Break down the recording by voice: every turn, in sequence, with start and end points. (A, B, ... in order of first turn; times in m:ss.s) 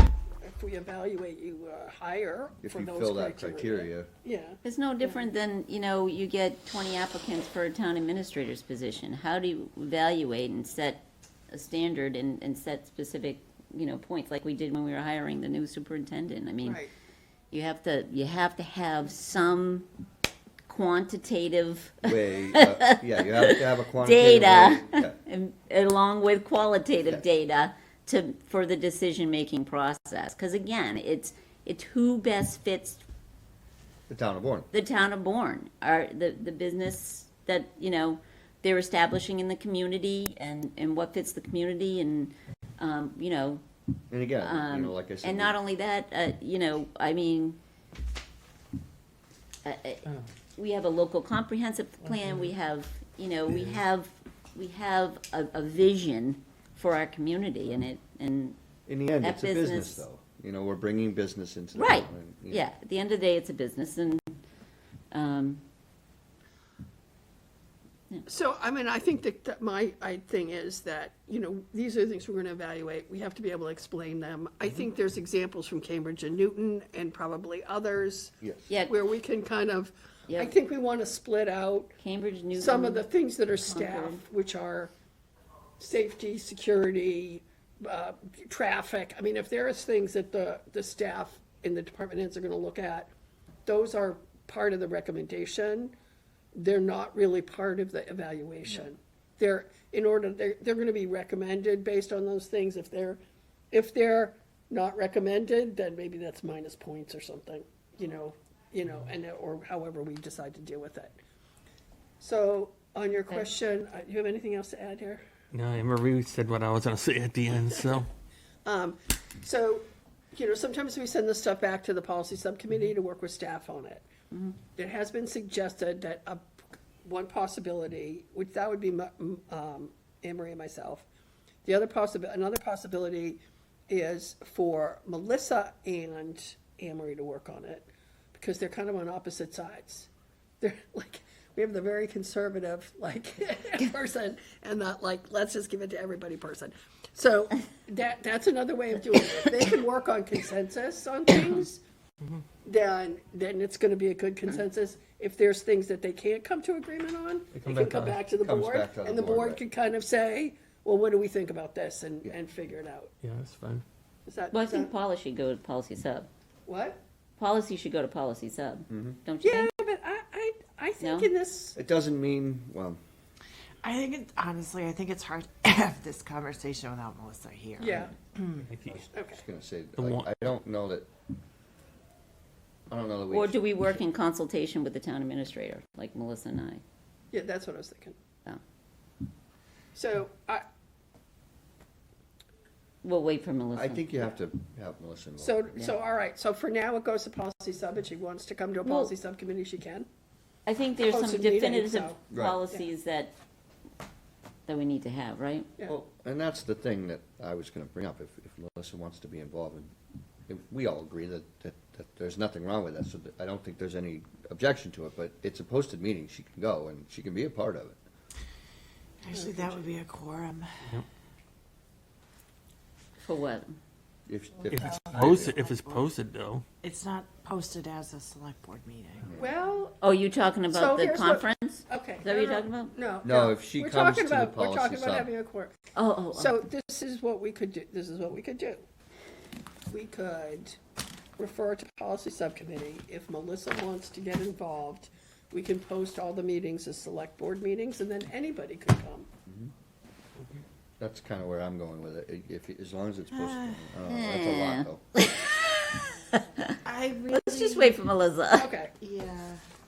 0:00.4-0:04.6 A
0:02.6-0:04.1 B
0:04.6-0:16.8 C
0:16.6-0:16.9 A
0:17.5-0:19.9 C
0:20.7-0:33.0 C
0:22.0-0:25.1 B
0:34.1-0:34.7 B
0:34.7-0:43.6 C
0:44.1-0:45.6 B
0:44.4-0:47.6 C
0:49.6-0:50.0 C
0:50.6-0:58.6 C
0:52.1-0:52.5 D
0:58.9-1:02.7 B
0:59.2-1:00.0 C
1:01.7-1:04.4 C
1:05.1-1:05.6 C
1:08.3-1:21.9 A
1:18.4-1:18.7 B
1:22.0-1:23.0 C
1:22.5-1:24.9 A
1:23.7-1:24.2 C
1:25.8-1:33.1 A
1:33.6-1:35.9 A
1:36.5-1:43.2 A
1:43.7-1:51.2 A
1:52.2-1:55.2 A
1:55.5-1:58.1 D
1:58.6-2:04.0 A
2:04.7-2:11.1 A
2:11.6-2:20.1 A
2:20.6-2:31.8 A
2:32.6-2:43.1 A
2:37.5-2:38.2 D
2:38.4-2:39.6 B
2:43.2-2:43.8 D
2:44.2-2:44.9 A
2:44.5-2:46.3 C
2:46.6-2:47.0 A
2:47.4-2:49.7 C
2:48.9-2:49.2 B
2:49.4-2:51.8 A
2:51.0-2:51.3 C
2:51.8-2:53.0 B
2:53.8-2:58.6 E
2:57.8-2:58.1 A
2:58.6-2:59.0 D
2:58.9-3:01.1 B
2:59.1-2:59.4 A
3:00.0-3:00.3 D
3:02.9-3:03.6 B
3:03.3-3:06.8 C
3:07.3-3:08.2 A
3:09.9-3:10.6 A
3:13.0-3:14.1 C
3:13.7-3:15.6 B
3:15.4-3:20.1 A
3:18.8-3:19.1 C
3:20.6-3:23.3 C
3:21.0-3:22.9 A
3:22.3-3:22.6 B
3:24.7-3:25.7 C
3:25.9-3:29.9 B
3:30.5-3:38.0 B
3:39.2-3:40.8 E
3:39.3-3:39.9 A
3:43.2-3:43.8 C
3:44.3-3:45.6 B
3:44.7-3:46.6 D
3:44.7-3:46.0 E
3:46.8-3:49.3 E
3:49.4-3:50.0 A
3:50.0-3:52.9 C
3:50.7-3:55.8 A
3:53.2-3:55.3 B
3:56.0-3:56.5 C
3:56.3-3:58.8 A
3:59.9-4:00.8 A
4:01.4-4:09.3 A
4:11.0-4:15.0 B
4:13.4-4:13.8 E
4:14.0-4:16.7 C
4:16.8-4:18.0 E
4:17.3-4:18.7 C
4:18.5-4:18.9 A
4:19.0-4:19.6 E